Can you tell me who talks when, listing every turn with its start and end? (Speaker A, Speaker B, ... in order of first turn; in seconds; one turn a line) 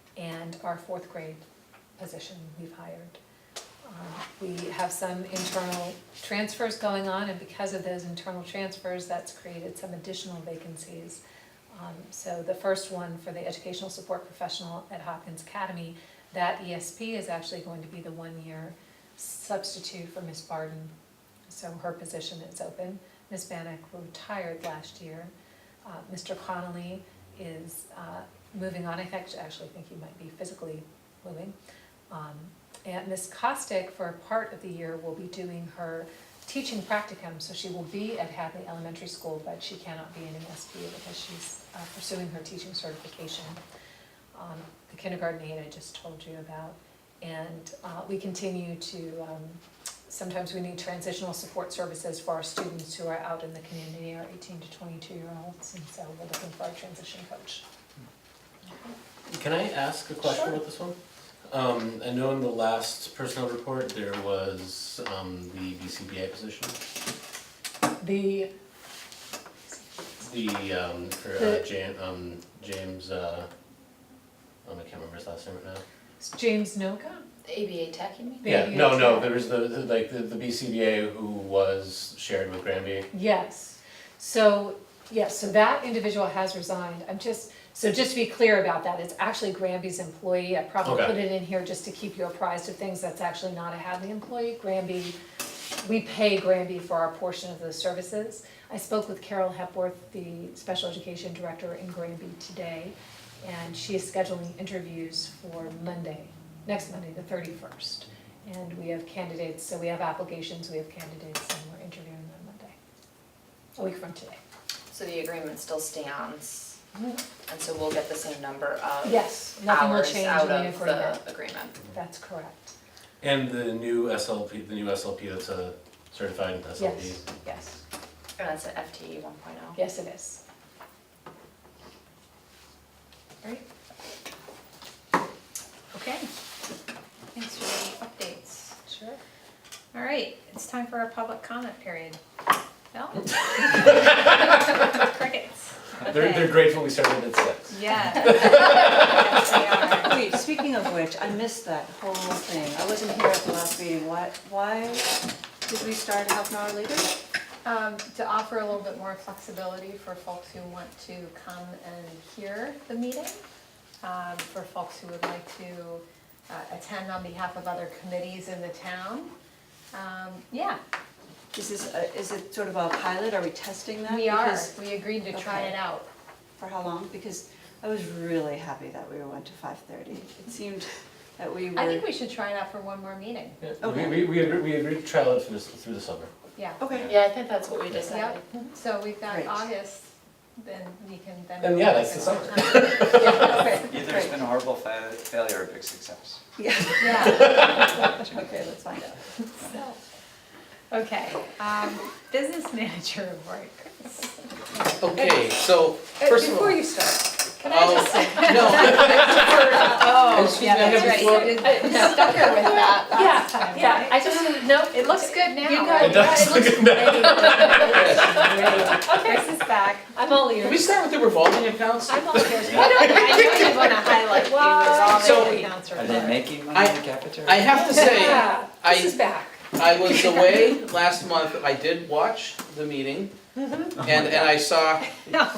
Speaker A: 0.1-1.4
Speaker A: 2.0-3.2
Speaker A: 3.8-11.2
Speaker A: 11.7-20.9
Speaker A: 21.5-25.3
Speaker A: 25.8-31.5
Speaker A: 32.1-43.6
Speaker A: 44.3-57.6
Speaker B: 59.3-61.0
Speaker A: 60.2-60.5
Speaker B: 61.5-66.7
Speaker A: 68.0-68.5
Speaker B: 70.2-73.5
Speaker A: 71.4-71.6
Speaker B: 74.6-75.8
Speaker A: 76.2-77.2
Speaker C: 77.4-78.4
Speaker A: 78.4-79.3
Speaker B: 78.4-83.1
Speaker A: 83.1-95.2
Speaker B: 90.8-91.2
Speaker A: 95.8-112.8
Speaker A: 113.8-114.4
Speaker C: 114.9-116.8
Speaker C: 117.5-121.7
Speaker A: 119.0-122.7
Speaker B: 123.2-127.2
Speaker A: 126.8-127.8
Speaker C: 128.4-129.8
Speaker A: 129.7-130.4
Speaker D: 135.9-136.2
Speaker D: 137.3-138.6
Speaker A: 138.9-139.2
Speaker D: 139.9-142.2
Speaker D: 142.9-146.5
Speaker B: 143.8-144.5
Speaker B: 146.0-149.4
Speaker D: 147.7-150.1
Speaker E: 149.7-155.1
Speaker E: 155.7-157.1
Speaker F: 157.6-163.4
Speaker F: 164.0-169.3
Speaker F: 169.9-170.8
Speaker E: 171.5-174.7
Speaker F: 174.0-176.1
Speaker E: 175.3-175.8
Speaker E: 176.6-180.9
Speaker E: 181.4-182.1
Speaker F: 181.7-183.6
Speaker B: 183.6-186.3
Speaker E: 183.8-184.3
Speaker E: 186.8-187.1
Speaker C: 187.0-188.4
Speaker F: 188.0-193.8
Speaker E: 189.3-189.6
Speaker B: 191.6-193.6
Speaker E: 193.1-194.4
Speaker G: 193.8-196.4
Speaker E: 196.6-199.2
Speaker F: 197.0-197.4
Speaker B: 197.3-197.9
Speaker D: 201.1-204.1
Speaker H: 205.0-206.8
Speaker A: 206.2-221.0
Speaker H: 207.6-211.6
Speaker D: 208.4-209.5
Speaker F: 209.5-218.4
Speaker D: 210.4-210.8
Speaker D: 211.8-212.2
Speaker B: 216.0-217.8
Speaker H: 217.9-219.1
Speaker F: 219.1-219.5
Speaker H: 220.6-222.6
Speaker A: 222.1-225.7
Speaker G: 222.6-223.0
Speaker F: 222.7-226.4
Speaker H: 225.2-225.6
Speaker G: 225.9-227.8
Speaker H: 226.7-233.3
Speaker A: 227.8-230.6
Speaker G: 234.0-234.5
Speaker H: 234.0-235.1